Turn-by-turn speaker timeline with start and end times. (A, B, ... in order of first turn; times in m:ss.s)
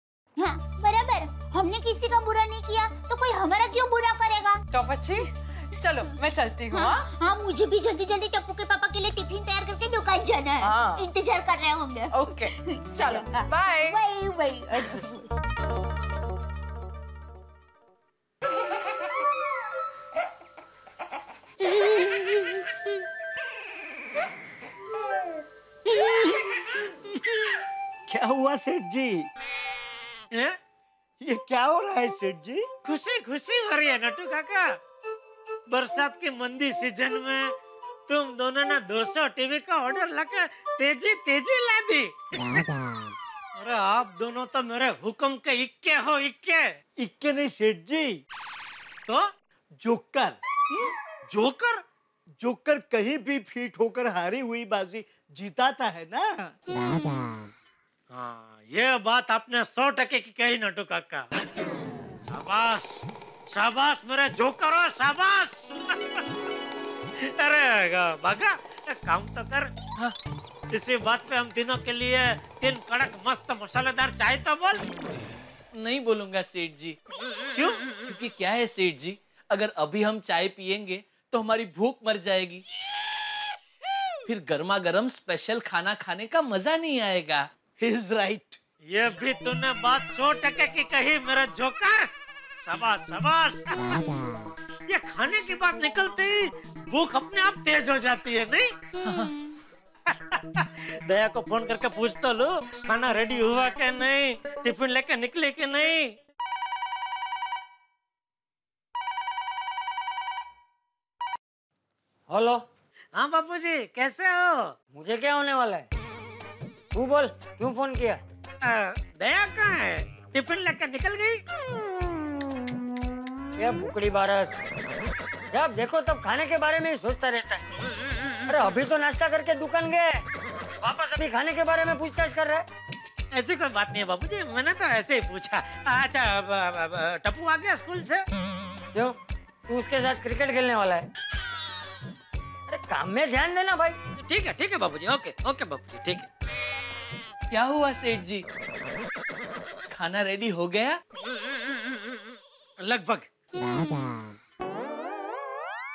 0:00.4-0:04.6 A
0:04.7-0:07.0 B
0:06.7-0:15.1 A
0:10.6-0:11.1 B
0:12.1-0:14.0 B
0:21.7-0:22.3 A
0:25.9-0:26.3 A
0:28.1-0:29.3 C
0:31.2-0:32.7 C
0:32.8-0:34.7 D
0:35.7-0:37.5 D
0:38.1-0:42.6 D
0:43.6-0:46.7 D
0:47.0-0:48.2 C
0:49.8-0:50.9 C
0:51.3-0:51.8 D
0:52.4-0:56.5 C
0:58.1-1:01.3 D
1:02.3-1:05.7 D
1:07.2-1:09.7 D
1:10.7-1:14.8 D
1:15.8-1:17.0 E
1:18.0-1:22.6 E
1:24.3-1:27.5 E
1:27.8-1:28.6 C
1:28.9-1:32.1 D
1:32.7-1:33.7 D
1:34.9-1:38.7 D
1:39.0-1:39.3 E
1:40.1-1:46.1 D
1:52.3-1:52.6 F
1:53.2-1:54.7 D
1:54.9-1:55.9 F
1:56.9-1:58.2 F
1:58.6-2:01.4 D
2:03.6-2:04.5 F
2:05.5-2:07.6 F
2:08.5-2:10.2 F
2:10.8-2:12.7 F
2:13.3-2:18.2 D
2:18.9-2:21.1 F
2:22.7-2:24.0 F
2:24.2-2:26.3 D
2:27.5-2:28.4 E
2:29.9-2:31.0 E
2:32.8-2:33.3 D